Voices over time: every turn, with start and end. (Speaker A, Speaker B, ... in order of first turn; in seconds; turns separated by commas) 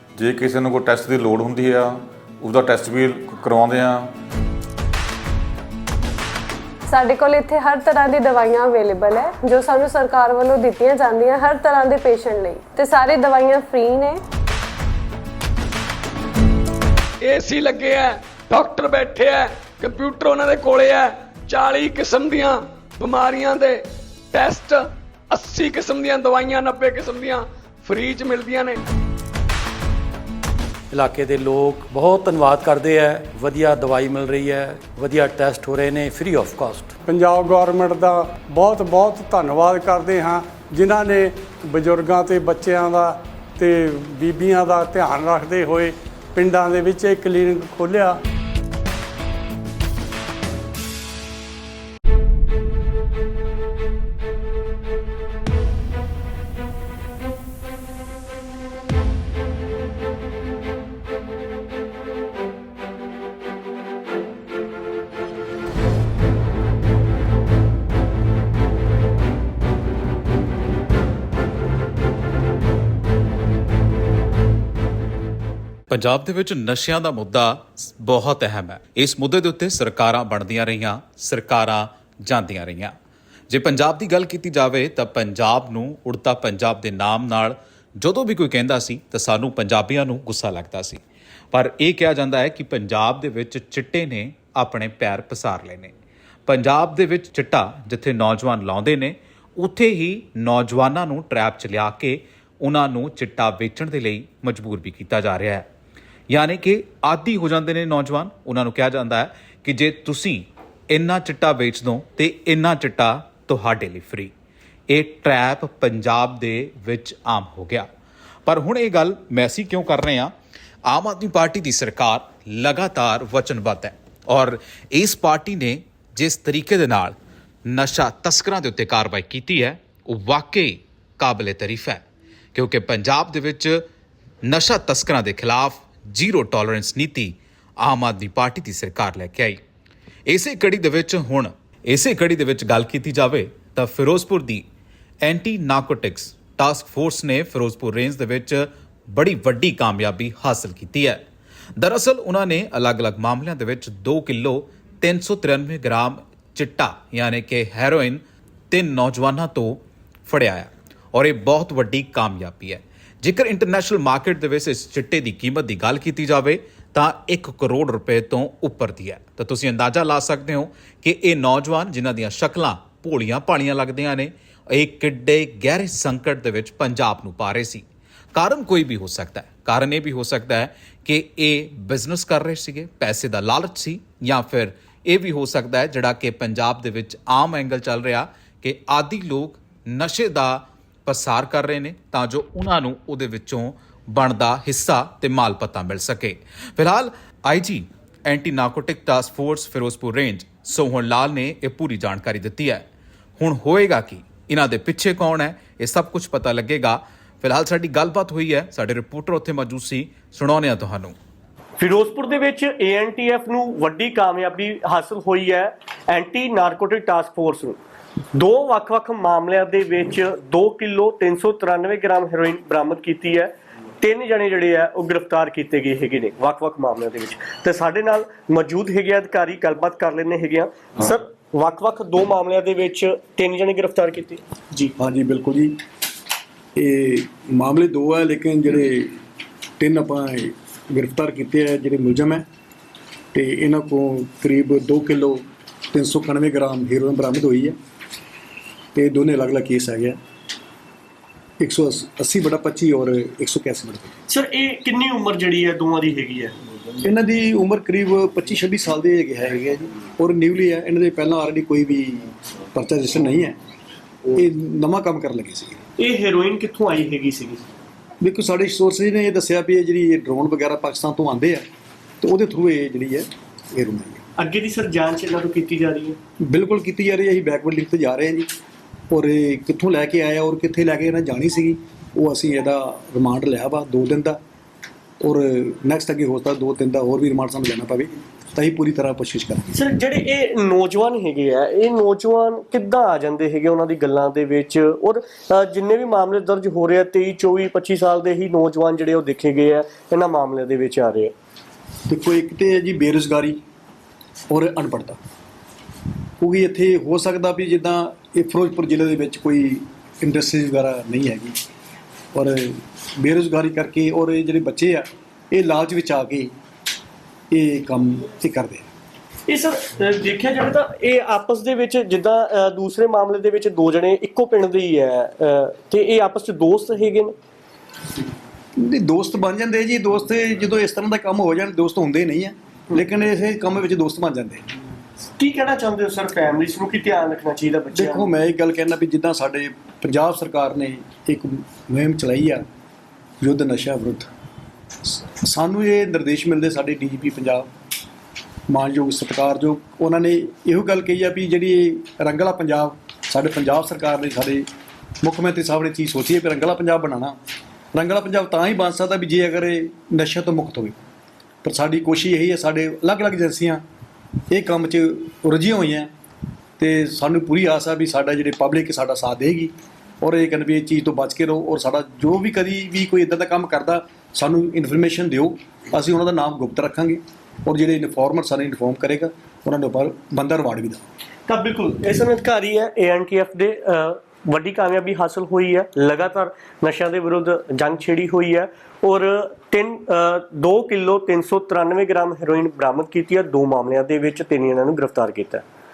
Speaker A: 0.1-4.1, Speaker B: 6.9-14.2, Speaker C: 17.2-28.8, Speaker D: 30.9-36.9, Speaker E: 37.0-48.2, Speaker F: 75.9-82.9, Speaker F: 83.5-95.9, Speaker F: 96.5-105.7, Speaker F: 106.3-114.3, Speaker F: 114.9-117.9, Speaker F: 118.5-120.3, Speaker F: 120.9-127.2, Speaker F: 127.7-133.8, Speaker F: 134.4-139.6, Speaker F: 140.3-144.6, Speaker F: 145.2-151.2, Speaker F: 151.8-177.8, Speaker F: 178.3-202.8, Speaker F: 203.4-211.2, Speaker G: 211.8-217.8, Speaker G: 218.3-234.9, Speaker H: 235.0-235.7, Speaker H: 236.8-239.1, Speaker H: 239.8-242.4, Speaker H: 243.3-247.8, Speaker H: 248.9-250.2, Speaker H: 251.6-254.1, Speaker G: 254.3-256.5, Speaker H: 257.0-263.6, Speaker H: 264.3-265.8, Speaker G: 266.0-267.7, Speaker H: 268.2-271.6, Speaker H: 272.2-274.2, Speaker G: 274.4-276.2, Speaker H: 276.4-278.5, Speaker H: 279.1-284.4, Speaker H: 285.2-289.8, Speaker G: 289.7-301.3, Speaker H: 302.1-303.6, Speaker H: 304.5-305.2, Speaker H: 306.4-311.6, Speaker H: 312.3-316.5, Speaker H: 317.5-318.9, Speaker G: 319.5-327.3, Speaker H: 328.8-334.6, Speaker G: 335.4-338.3, Speaker H: 337.9-342.6, Speaker H: 343.4-344.3, Speaker H: 345.0-347.7, Speaker H: 348.7-354.7, Speaker H: 355.2-357.4, Speaker H: 357.9-360.9, Speaker H: 361.6-363.8, Speaker H: 364.5-366.1, Speaker H: 366.8-381.0, Speaker G: 381.5-395.6